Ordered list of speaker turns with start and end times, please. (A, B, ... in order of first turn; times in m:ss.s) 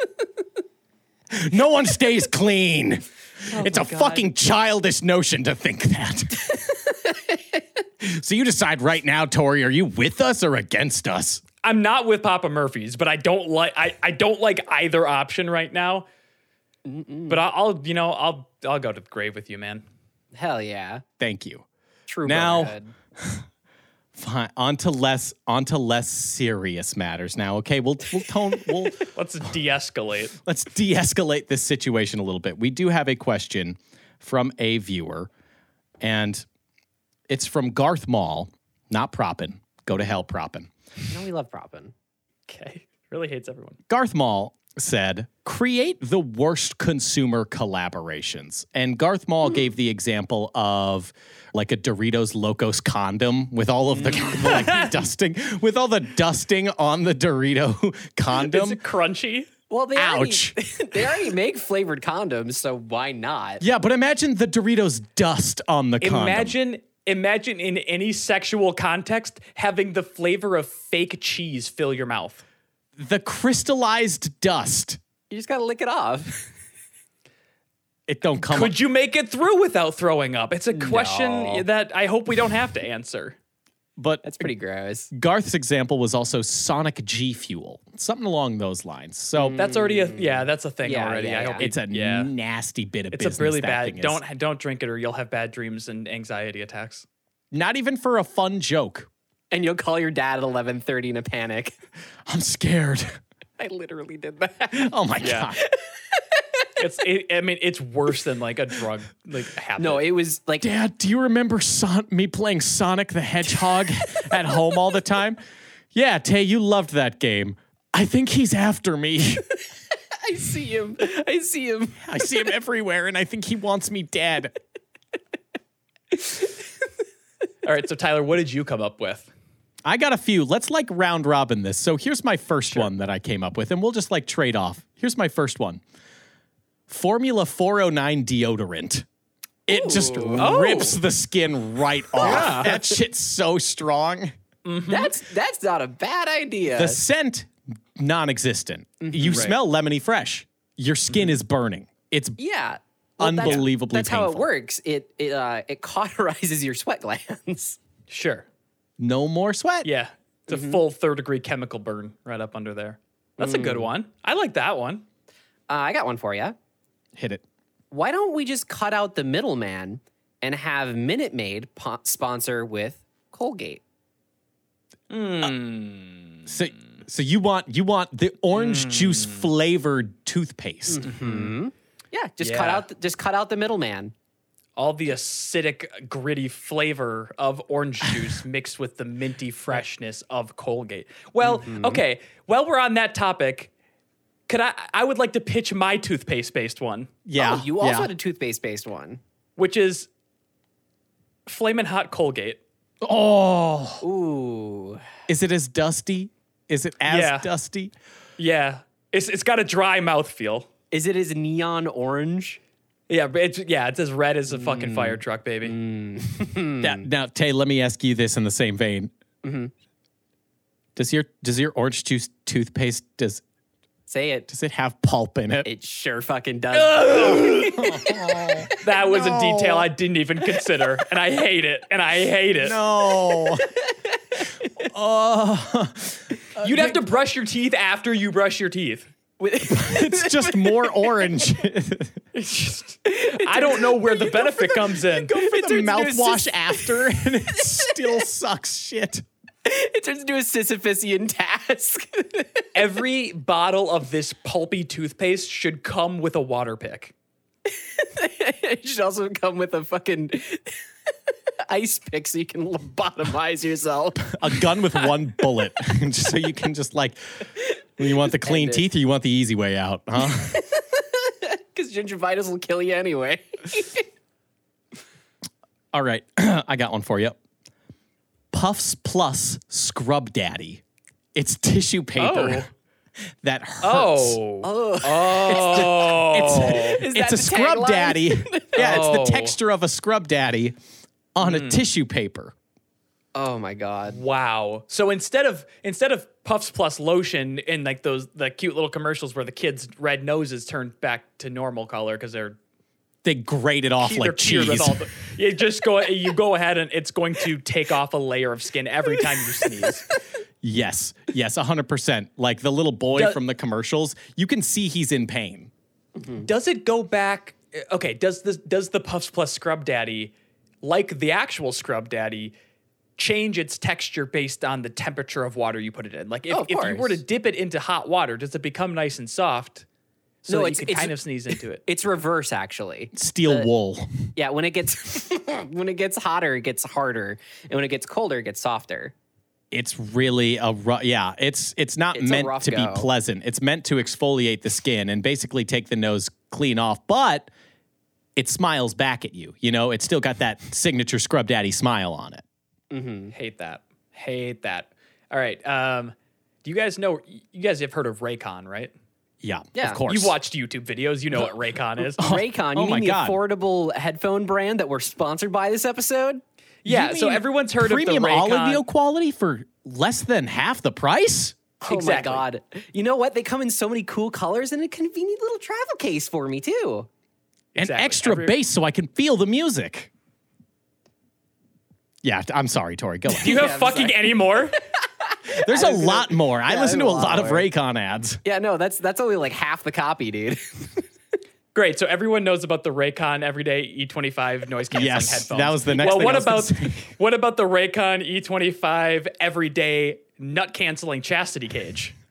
0:01.3-0:06.6 A
0:03.5-0:04.3 B
0:06.9-0:07.6 B
0:08.0-0:11.4 A
0:11.6-0:16.0 C
0:16.8-0:17.4 B
0:17.3-0:19.8 C
0:20.3-0:21.0 B
0:21.2-0:21.6 A
0:22.1-0:22.9 B
0:22.2-0:23.4 A
0:24.1-0:29.1 A
0:29.1-0:30.4 C
0:30.4-0:35.3 A
0:36.0-0:36.4 A
0:37.3-0:40.7 A
0:41.1-0:41.9 B
0:42.5-0:43.8 C
0:43.9-0:58.8 A
0:53.9-0:54.5 B
0:54.2-0:54.9 C
0:58.3-0:59.5 C
0:59.7-1:03.6 B
1:00.0-1:00.5 A
1:03.6-1:06.5 A
1:06.0-1:12.4 C
1:13.0-1:15.0 A
1:15.3-1:16.5 B
1:18.1-1:18.7 A
1:18.4-1:23.4 C
1:20.7-1:21.6 B
1:24.0-1:24.5 A
1:24.2-1:25.1 B
1:25.1-1:29.6 A
1:29.4-1:31.7 B
1:29.6-1:32.3 C
1:31.6-1:34.2 A
1:33.1-1:37.0 C
1:37.5-1:39.1 A
1:39.5-1:41.7 B
1:42.2-1:43.2 A
1:43.6-1:44.9 B
1:44.7-1:45.6 A
1:45.2-1:45.5 C
1:46.1-1:46.7 B
1:46.8-1:50.0 C
1:49.8-1:50.7 B
1:50.6-1:55.4 A
1:55.9-1:59.4 A
2:00.2-2:02.4 B
2:02.0-2:04.5 A
2:07.6-2:09.3 C
2:09.8-2:15.8 A
2:16.9-2:19.0 A
2:19.7-2:24.3 A
2:19.7-2:20.5 B
2:20.4-2:21.0 C
2:22.2-2:22.7 C
2:22.2-2:22.9 B
2:24.6-2:25.1 C
2:24.9-2:27.0 B
2:26.7-2:32.4 A
2:29.0-2:29.5 B
2:29.3-2:29.5 C
2:32.4-2:37.8 B
2:33.2-2:34.4 A
2:38.1-2:38.4 C
2:39.0-2:39.9 A
2:39.8-2:45.0 C
2:40.5-2:40.8 B
2:43.4-2:43.9 B
2:45.7-2:46.6 B
2:47.2-2:47.4 A
2:47.9-2:53.8 B
2:55.1-2:56.5 C
2:56.5-3:01.0 A
2:58.5-2:59.5 C
3:00.9-3:04.1 B
3:01.0-3:01.5 C
3:02.4-3:02.8 C
3:04.8-3:13.7 C
3:11.4-3:12.0 B
3:14.5-3:17.1 C
3:17.2-3:18.1 A
3:17.4-3:19.2 B
3:19.6-3:20.1 C
3:21.5-3:22.6 C
3:23.0-3:24.0 A
3:24.0-3:25.0 B
3:25.3-3:27.9 A
3:27.0-3:27.5 C
3:28.4-3:30.7 C
3:30.9-3:32.6 B
3:33.1-3:35.7 C
3:34.5-3:37.0 B
3:36.8-3:39.1 A
3:39.4-3:39.7 B
3:41.0-3:43.4 A
3:44.1-3:44.5 B
3:44.5-3:45.6 A
3:45.6-3:48.7 B
3:46.8-3:47.9 C
3:47.8-3:49.9 A
3:48.8-3:52.8 C
3:52.6-3:53.7 A
3:53.4-3:54.8 B
3:54.8-3:57.1 A
3:56.6-3:59.1 C
3:59.4-4:01.4 B
3:59.6-4:02.2 A
4:02.3-4:05.3 C
4:03.1-4:07.9 B
4:05.3-4:09.2 A
4:09.6-4:12.7 B
4:12.7-4:17.1 C
4:17.7-4:20.8 B
4:21.7-4:25.0 B
4:24.3-4:27.4 A
4:28.0-4:30.6 A
4:28.1-4:28.8 B
4:30.2-4:34.0 B
4:35.9-4:37.4 A
4:38.5-4:40.8 A
4:41.3-4:42.7 A
4:42.2-4:42.7 C
4:43.4-4:44.4 A
4:43.8-4:47.0 C
4:44.6-4:49.0 B
4:45.5-4:50.8 A
4:48.8-4:49.6 C
4:51.3-4:52.5 A
4:51.4-4:51.8 C
4:53.3-4:54.2 B
4:54.1-5:02.6 C
5:03.2-5:05.0 A
5:04.0-5:10.0 C
5:09.6-5:10.1 B
5:10.6-5:15.7 A
5:13.1-5:13.4 C
5:16.2-5:16.5 B
5:16.4-5:22.5 C
5:23.2-5:29.8 C
5:26.5-5:27.2 B
5:30.4-5:31.8 C
5:30.5-5:33.7 B
5:33.1-5:34.3 A
5:34.4-5:39.1 B
5:39.7-5:47.5 A
5:42.1-5:43.1 B
5:48.4-5:52.4 A
5:52.9-5:53.3 B
5:53.3-5:58.9 C
5:59.4-6:00.3 A
5:59.7-6:00.0 B
6:00.1-6:02.3 C
6:02.2-6:06.4 B
6:02.2-6:03.4 A
6:06.8-6:08.8 C
6:06.8-6:11.6 A
6:11.8-6:17.1 B
6:11.8-6:12.4 C
6:17.7-6:18.6 C
6:17.8-6:20.1 A
6:22.2-6:23.7 A
6:23.3-6:27.7 B
6:23.4-6:24.8 C
6:25.5-6:28.4 A
6:28.4-6:31.0 B
6:31.7-6:42.1 C
6:34.9-6:37.1 A